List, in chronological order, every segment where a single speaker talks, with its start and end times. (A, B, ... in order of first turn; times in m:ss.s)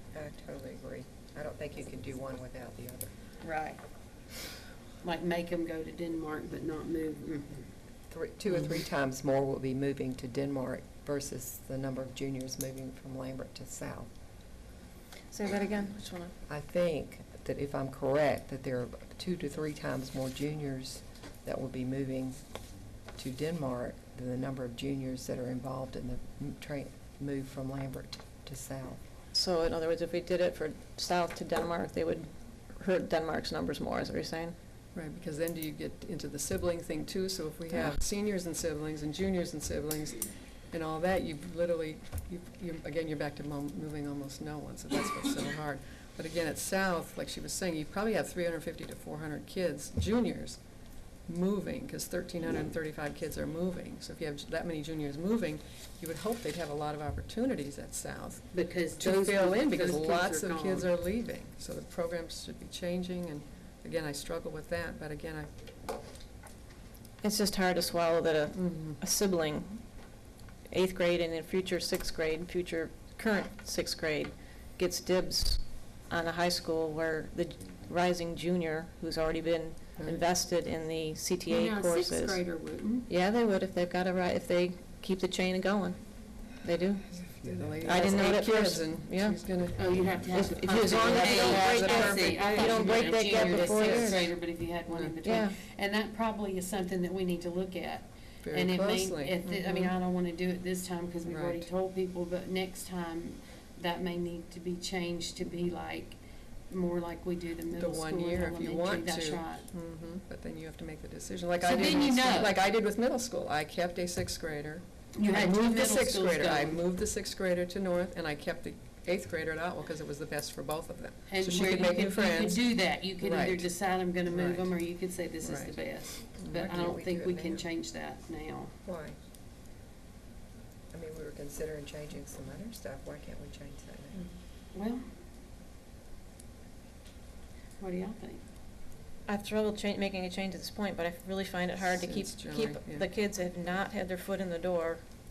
0:00.1-0:03.1 A
0:03.4-0:03.8 B
0:05.0-0:07.7 B
0:08.1-0:14.1 A
0:15.3-0:16.3 C
0:16.5-0:22.4 A
0:23.2-0:29.0 A
0:29.3-0:34.6 C
0:34.9-0:50.6 D
0:51.3-1:05.5 D
0:58.5-1:00.9 B
1:07.2-1:09.8 C
1:08.5-1:09.0 D
1:10.7-1:22.4 C
1:21.5-1:23.1 B
1:23.1-1:27.2 C
1:27.2-1:30.0 D
1:27.8-1:29.4 C
1:29.8-1:49.7 B
1:30.0-1:34.4 C
1:31.4-1:32.8 D
1:34.9-1:35.2 D
1:35.2-1:35.5 C
1:38.4-1:40.0 D
1:41.3-1:41.7 D
1:47.7-2:03.7 D
1:51.6-1:52.6 B
1:55.2-1:56.8 B
2:01.3-2:08.7 B
2:04.3-2:04.7 D
2:05.4-2:05.8 D
2:06.4-2:06.8 D
2:06.5-2:07.6 A
2:08.8-2:09.2 A
2:10.9-2:14.2 A
2:14.7-2:15.0 B
2:17.8-2:18.4 B
2:19.3-2:25.0 C
2:21.8-2:23.1 D